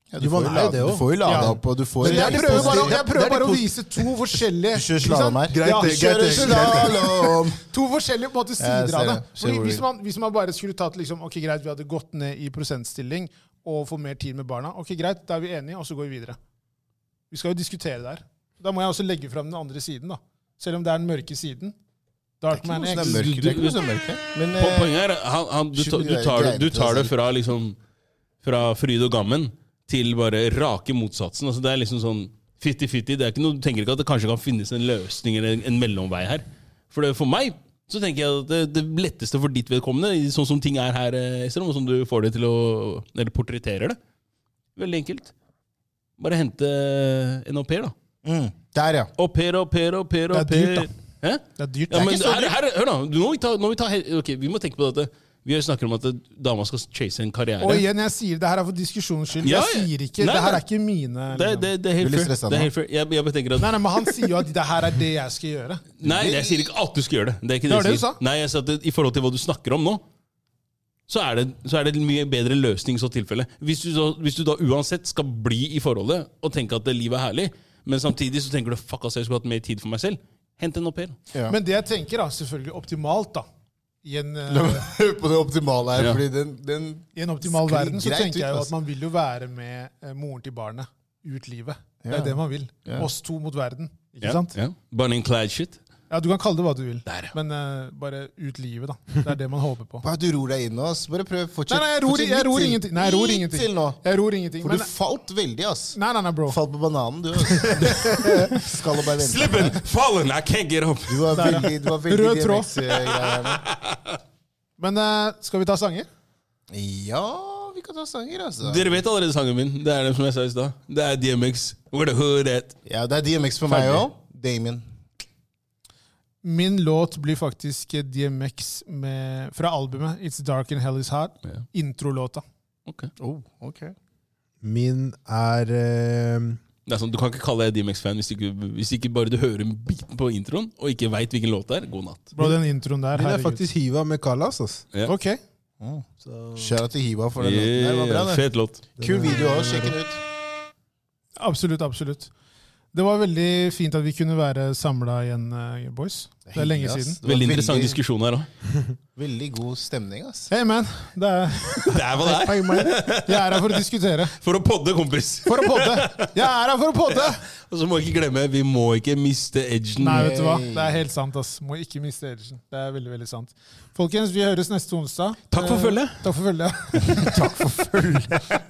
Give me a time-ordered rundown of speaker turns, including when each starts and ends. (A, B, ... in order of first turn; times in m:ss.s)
0:00.1-0:03.0 A
0:00.2-0:04.3 B
0:01.2-0:16.4 C
0:04.7-0:07.6 A
0:05.5-0:07.2 B
0:08.6-0:09.8 A
0:17.3-0:21.8 C
0:22.4-0:23.5 C
0:22.5-0:25.0 A
0:23.0-0:23.9 D
0:24.6-0:27.8 D
0:25.8-0:27.1 A
0:28.4-0:44.0 D
0:44.8-0:45.3 D
0:46.2-0:47.9 D
0:48.2-0:49.1 A
0:49.2-0:57.9 D
0:50.3-0:50.9 C
0:51.6-0:52.1 C
0:51.9-0:52.6 A
0:57.6-1:01.7 C
0:59.4-1:00.6 D
1:01.3-1:04.3 D
1:02.0-1:02.7 A
1:03.6-1:05.8 C
1:06.0-1:10.0 D
1:06.0-1:06.7 A
1:07.7-1:08.2 C
1:11.1-1:21.2 D
1:21.5-1:23.5 C
1:24.0-1:24.8 C
1:24.5-1:28.7 A
1:26.0-1:26.2 D
1:27.2-1:34.6 C
1:32.0-1:33.1 A
1:34.2-1:35.8 D
1:36.1-1:40.0 C
1:37.1-1:37.3 D
1:40.0-1:44.0 A
1:41.7-1:44.9 C
1:44.6-1:49.8 A
1:45.9-1:46.6 C
1:47.7-1:48.5 C
1:47.8-1:48.1 D
1:48.7-1:51.7 D
1:51.1-1:53.7 A
1:51.3-1:52.7 C
1:53.1-1:54.2 D
1:54.8-1:56.1 C
1:56.7-1:59.0 A
1:58.6-2:02.8 D
2:02.8-2:04.8 A
2:03.7-2:04.1 D
2:06.4-2:12.4 C
2:13.2-2:14.0 A
2:14.6-2:16.6 B
2:16.9-2:22.3 D
2:22.4-2:23.6 C
2:23.1-2:24.8 B
2:25.0-2:25.4 C
2:26.2-2:26.8 B
2:26.6-2:28.4 A
2:27.4-2:28.8 D
2:29.0-2:30.0 B
2:29.0-2:30.2 A
2:31.4-2:32.3 C
2:32.9-2:37.2 C
2:36.5-2:38.0 A
2:37.2-2:38.5 D
2:39.2-2:40.5 A
2:40.5-2:44.4 C
2:41.7-2:43.8 D
2:44.4-2:46.3 D
2:45.5-2:47.4 C
2:47.1-2:50.3 D
2:50.0-2:57.3 C
2:50.1-2:51.0 A
2:55.5-2:56.2 D
2:57.0-2:58.5 D
2:57.2-2:58.4 A